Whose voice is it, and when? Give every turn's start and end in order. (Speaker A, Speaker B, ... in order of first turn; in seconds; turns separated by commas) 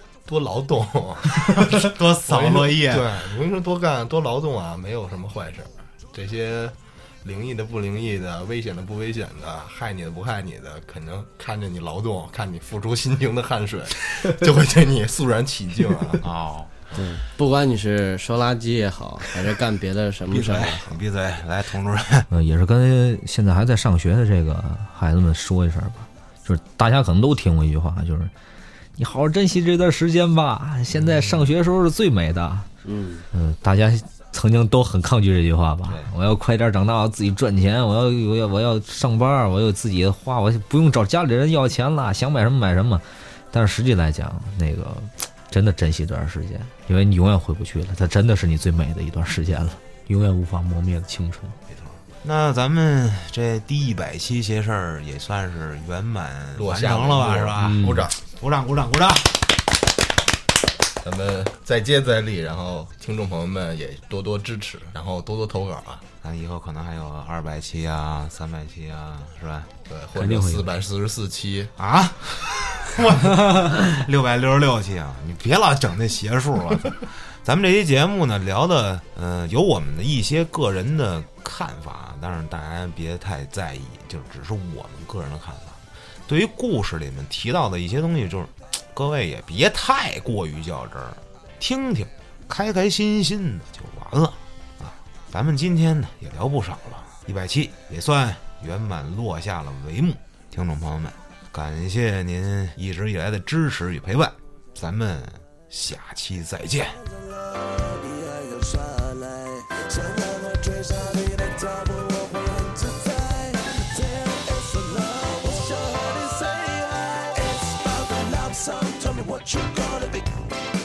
Speaker A: 0.2-16.2, Speaker B: 1.5-3.3, Speaker B: 16.2-16.9, Speaker C: 16.9-21.0, Speaker B: 20.3-22.3, Speaker D: 22.3-28.3, Speaker D: 29.0-32.7, Speaker B: 30.9-31.5, Speaker C: 32.8-33.3, Speaker D: 33.3-51.6, Speaker B: 35.9-36.1, Speaker B: 51.7-59.5, Speaker A: 56.5-58.1, Speaker D: 57.6-58.1, Speaker A: 61.0-66.0, Speaker B: 66.2-69.7, Speaker A: 69.9-71.7, Speaker D: 70.1-70.7, Speaker B: 71.8-107.0, Speaker E: 107.0-120.4